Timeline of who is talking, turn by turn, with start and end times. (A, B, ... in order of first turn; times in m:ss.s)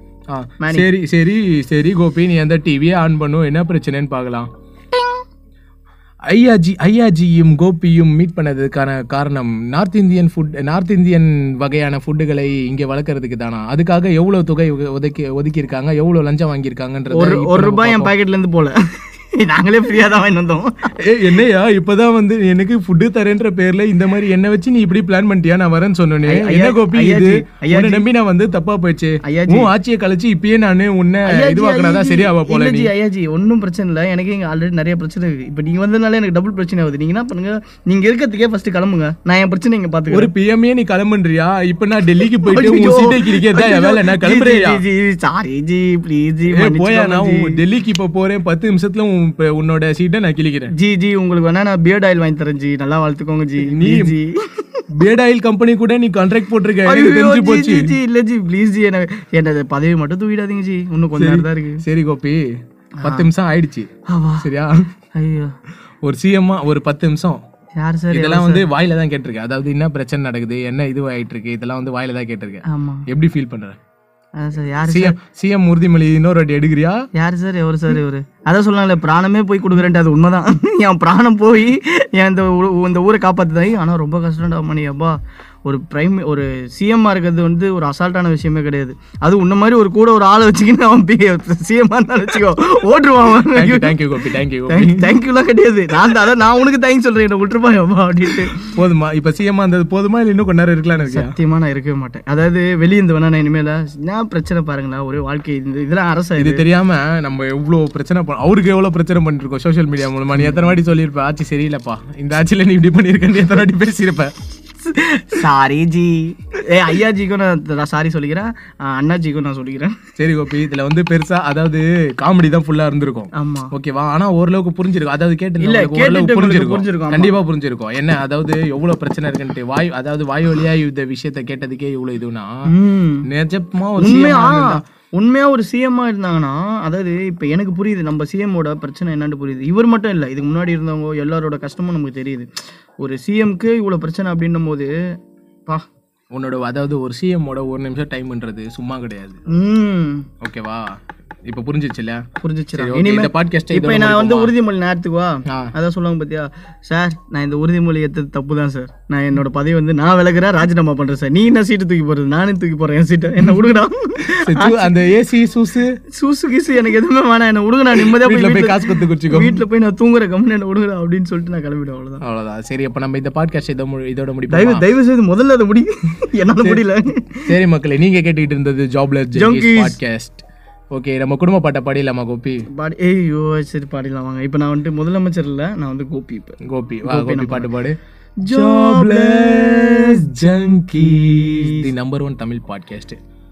0:00.3-0:04.5 A
0:00.6-0:00.9 B
0:04.9-0:05.2 B
0:06.3-0:18.1 A
0:17.1-0:21.0 B
0:21.0-0:32.9 A
0:26.3-0:28.0 B
0:29.2-0:29.7 B
0:31.2-0:40.3 B
0:40.1-0:44.8 A
0:42.4-0:47.6 B
0:46.5-0:50.7 A
0:50.7-0:54.9 B
0:53.6-0:54.2 A
0:54.9-0:58.0 A
0:56.8-1:01.8 B
1:01.2-1:02.5 A
1:03.0-1:03.3 B
1:03.0-1:04.9 A
1:04.1-1:04.5 B
1:05.1-1:05.6 B
1:06.0-1:07.4 A
1:07.8-1:08.7 B
1:08.1-1:13.8 A
1:12.7-1:13.1 B
1:14.4-1:15.2 B
1:14.9-1:17.1 A
1:17.2-1:34.0 B
1:33.4-1:35.2 A
1:34.7-1:38.8 B
1:38.7-1:41.4 A
1:41.0-1:46.6 B
1:46.4-1:54.4 A
1:50.4-1:50.6 B
1:54.9-2:00.0 B
2:00.2-2:12.5 A
2:03.3-2:03.7 B
2:05.6-2:07.4 B
2:12.7-2:13.3 B
2:13.2-2:14.8 A
2:14.0-2:25.0 B
2:26.3-2:29.4 A
2:29.5-2:30.3 B
2:30.4-2:34.6 A
2:32.4-2:45.0 B
2:44.3-2:46.0 A
2:46.1-2:52.2 B
2:47.9-2:49.6 A
2:52.2-2:54.8 A
2:54.5-2:57.5 B
2:57.5-3:02.6 A
2:59.4-3:00.0 B
3:02.7-3:07.7 B
3:06.6-3:13.2 A
3:08.4-3:11.9 B